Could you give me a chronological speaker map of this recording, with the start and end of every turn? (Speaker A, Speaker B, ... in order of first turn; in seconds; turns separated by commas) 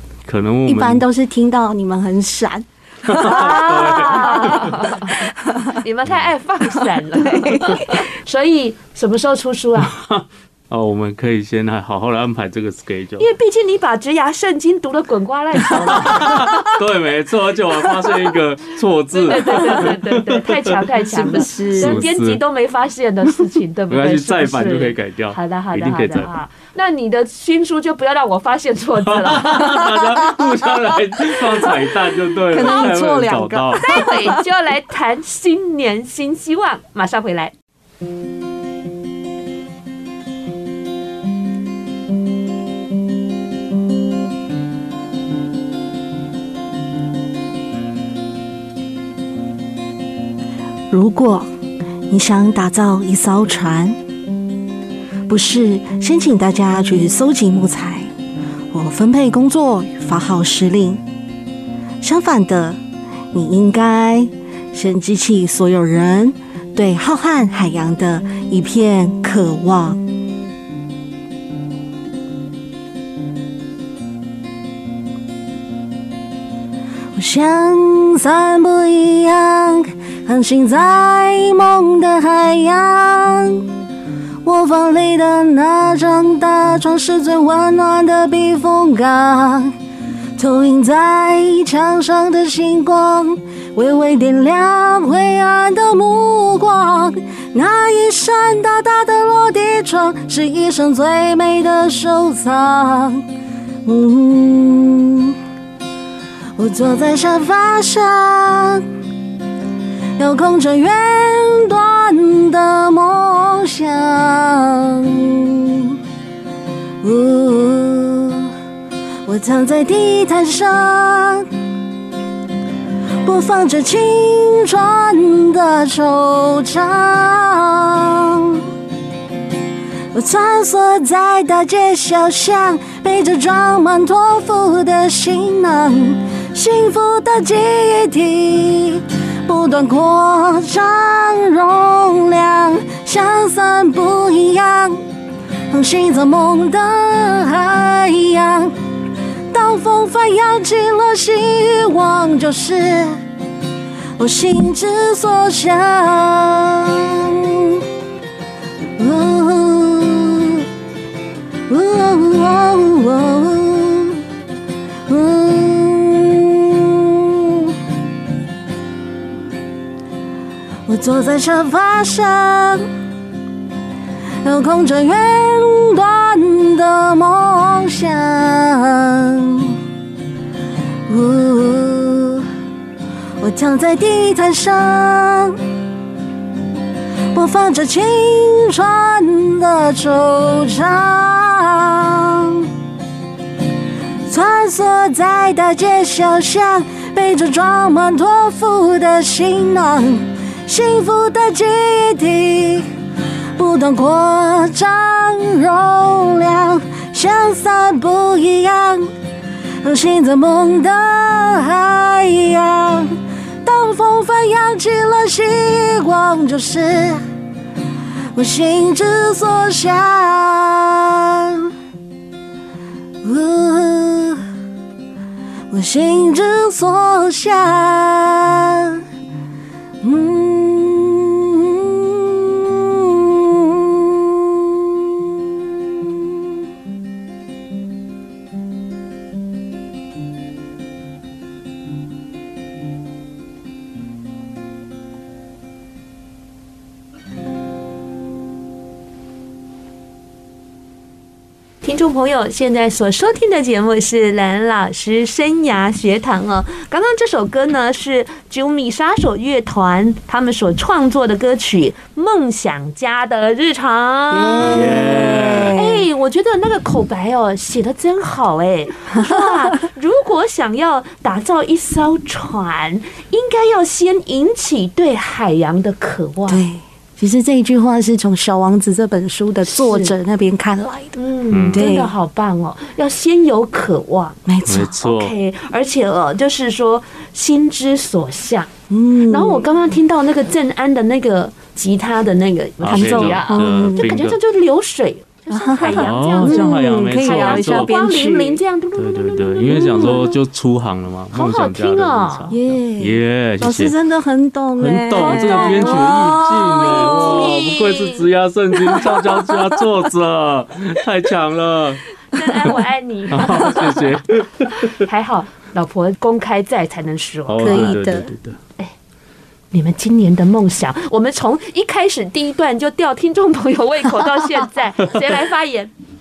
Speaker A: 0.3-1.1, Speaker B: 0.7-5.8, Speaker A: 3.1-4.8, Speaker C: 3.2-5.2, Speaker C: 5.7-9.9, Speaker B: 7.1-8.1, Speaker A: 9.9-13.3, Speaker C: 13.2-16.7, Speaker A: 15.7-22.4, Speaker C: 19.1-29.9, Speaker B: 21.1-22.1, Speaker A: 23.9-26.3, Speaker A: 29.0-34.0, Speaker B: 29.9-34.4, Speaker C: 33.8-37.5, Speaker B: 50.9-51.5, Speaker B: 52.1-54.0, Speaker B: 55.3-58.1, Speaker B: 58.7-61.0, Speaker B: 62.0-62.8, Speaker B: 63.3-70.0, Speaker B: 77.1-83.7, Speaker B: 84.4-89.7, Speaker B: 90.4-103.2, Speaker B: 103.8-105.4, Speaker B: 106.6-108.9, Speaker B: 110.2-116.0, Speaker B: 117.0-118.5, Speaker B: 119.3-121.5, Speaker B: 123.2-128.7, Speaker B: 130.1-145.0, Speaker B: 145.7-148.7, Speaker B: 149.5-153.2, Speaker B: 154.2-157.9, Speaker B: 159.0-160.7, Speaker B: 161.7-164.2, Speaker B: 165.1-167.8, Speaker B: 170.9-172.9, Speaker B: 174.4-179.8, Speaker B: 181.1-182.5, Speaker B: 183.4-185.6, Speaker B: 187.3-192.7, Speaker B: 194.3-202.9, Speaker B: 203.6-209.1, Speaker B: 209.8-213.1, Speaker B: 213.6-217.2, Speaker B: 218.3-221.7, Speaker B: 223.2-224.4, Speaker B: 225.7-229.0, Speaker B: 230.0-236.7, Speaker C: 251.8-276.6, Speaker B: 264.3-266.1, Speaker A: 264.6-265.8, Speaker B: 269.2-269.6, Speaker B: 276.5-281.2, Speaker C: 279.7-280.1, Speaker C: 281.2-284.4, Speaker A: 281.5-281.9, Speaker B: 281.7-282.1, Speaker B: 284.5-284.9, Speaker A: 284.7-285.3, Speaker C: 285.0-288.7, Speaker B: 288.9-289.7, Speaker C: 289.3-300.3, Speaker A: 292.8-294.4, Speaker B: 292.9-294.1, Speaker B: 295.5-298.6, Speaker A: 295.8-297.9, Speaker A: 299.0-303.9, Speaker B: 299.7-300.3, Speaker C: 301.3-302.5, Speaker B: 302.5-307.6, Speaker A: 304.8-312.0, Speaker C: 305.1-308.2, Speaker B: 308.9-309.8, Speaker C: 312.3-314.1, Speaker A: 313.3-314.9, Speaker C: 314.8-317.9, Speaker A: 317.5-318.6, Speaker B: 317.6-318.3, Speaker C: 319.7-325.9